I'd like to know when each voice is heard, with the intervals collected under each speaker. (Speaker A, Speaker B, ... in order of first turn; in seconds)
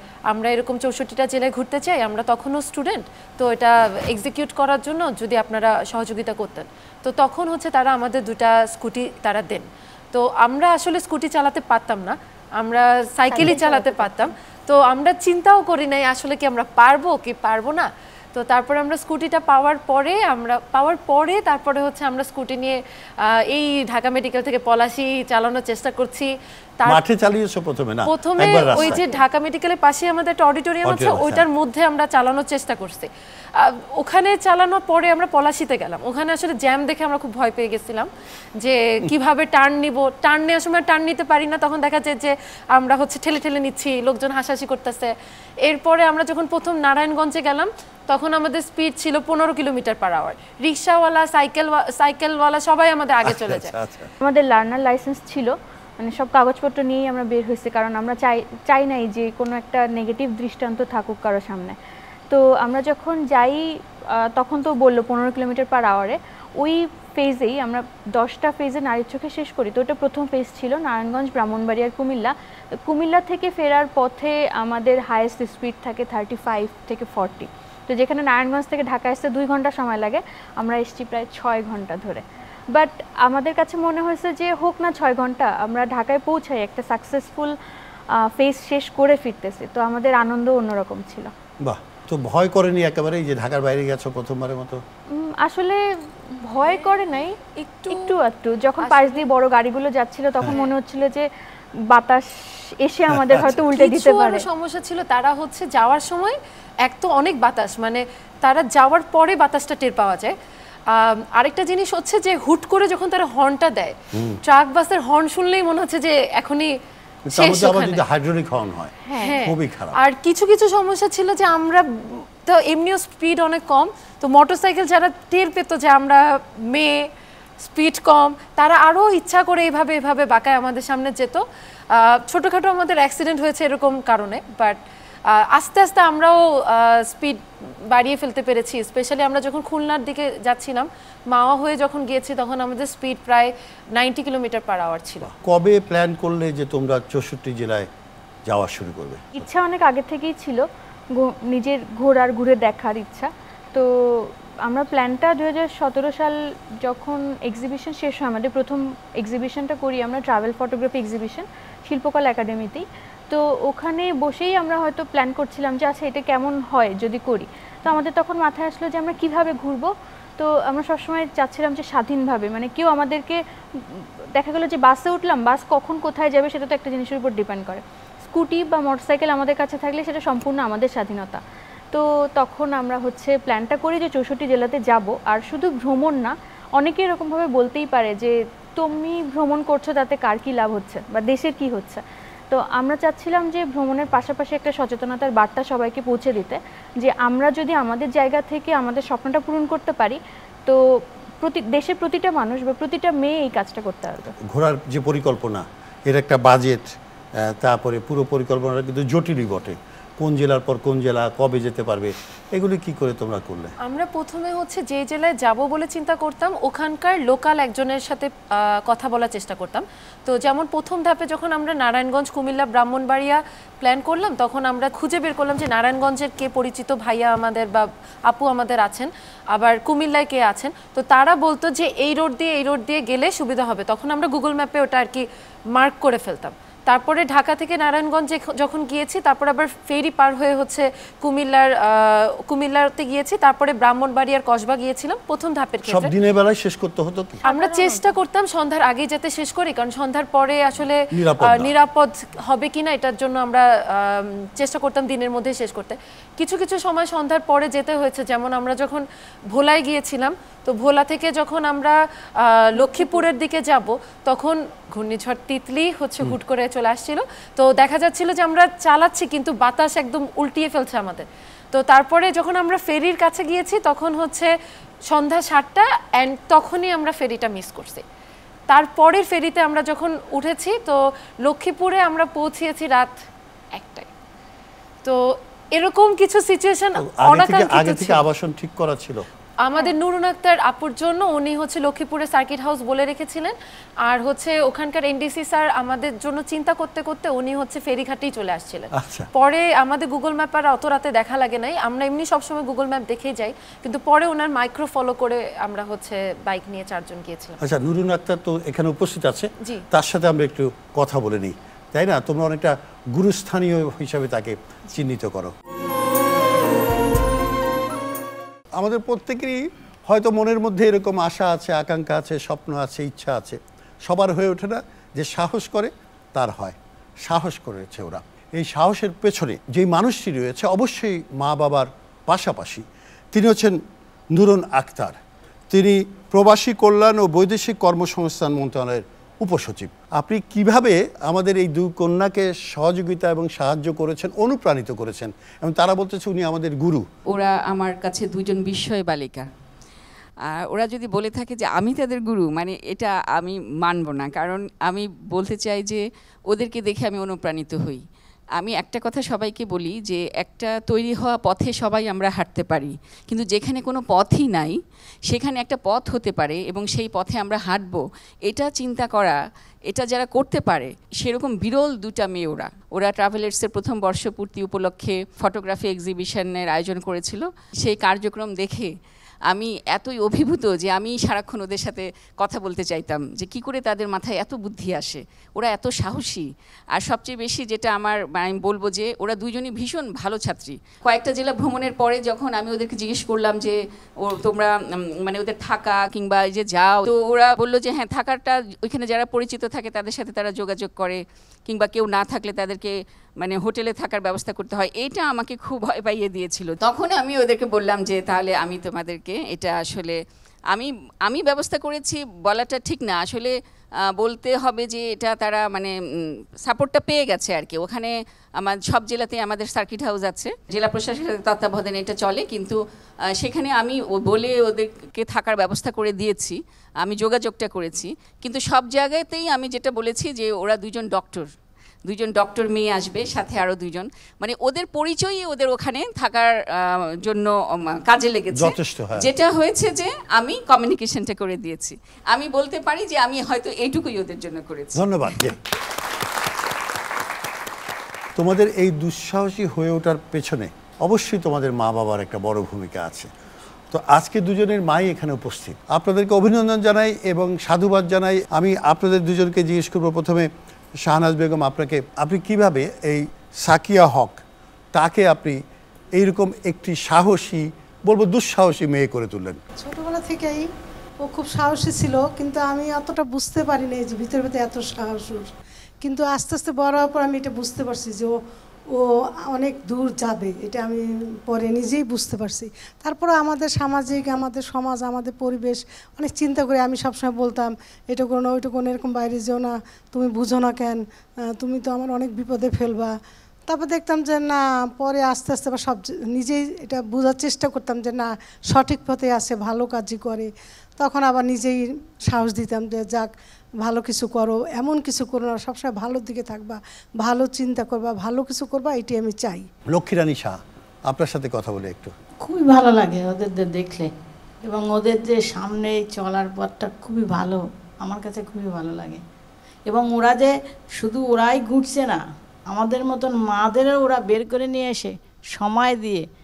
Speaker A: 0.3-26.3, 28.1-38.1, 38.6-45.1, 45.6-53.7, 96.7-96.9, 97.6-98.1, 98.8-99.3, 103.7-110.3, 110.9-116.7, 117.3-118.0, 119.2-127.0, 127.6-145.3, 213.8-246.1, 247.4-274.5, 275.1-278.0, 278.7-283.2, 283.7-284.1, 285.0-288.2, 289.6-307.6
Speaker B: 26.9-29.0, 30.8-31.4, 53.2-54.1, 91.6-94.8, 103.1-103.6, 114.1-114.4, 117.3-120.0, 145.2-147.9, 148.5-149.4, 204.5-213.7, 245.9-247.4, 251.1-251.7, 287.0-289.2, 298.9-299.3, 307.6-315.5, 318.8-333.8, 334.3-335.2, 335.7-347.1, 438.5-439.3, 445.0-445.6, 448.4-453.3, 453.9-460.5, 461.0-464.4, 464.9-465.6, 466.1-469.6, 509.9-512.1
Speaker C: 54.2-61.8, 62.3-87.6, 88.1-91.3, 95.1-95.8, 96.3-101.3, 101.9-102.2, 102.8-104.4, 119.0-119.4, 149.3-181.4, 181.9-200.8, 201.4-204.3, 247.5-248.0
Speaker D: 347.3-349.5, 350.5-358.0, 358.6-364.8, 365.3-369.4, 369.9-378.9, 379.5-410.2, 410.7-413.5, 414.2-415.9, 416.6-422.8, 423.4-431.5, 432.1-445.5
Speaker E: 469.8-470.6, 471.2-475.5, 476.0-478.3, 478.9-493.1, 493.7-503.3, 503.8-509.7
Speaker F: 512.4-514.1, 514.6-519.2, 519.9-526.2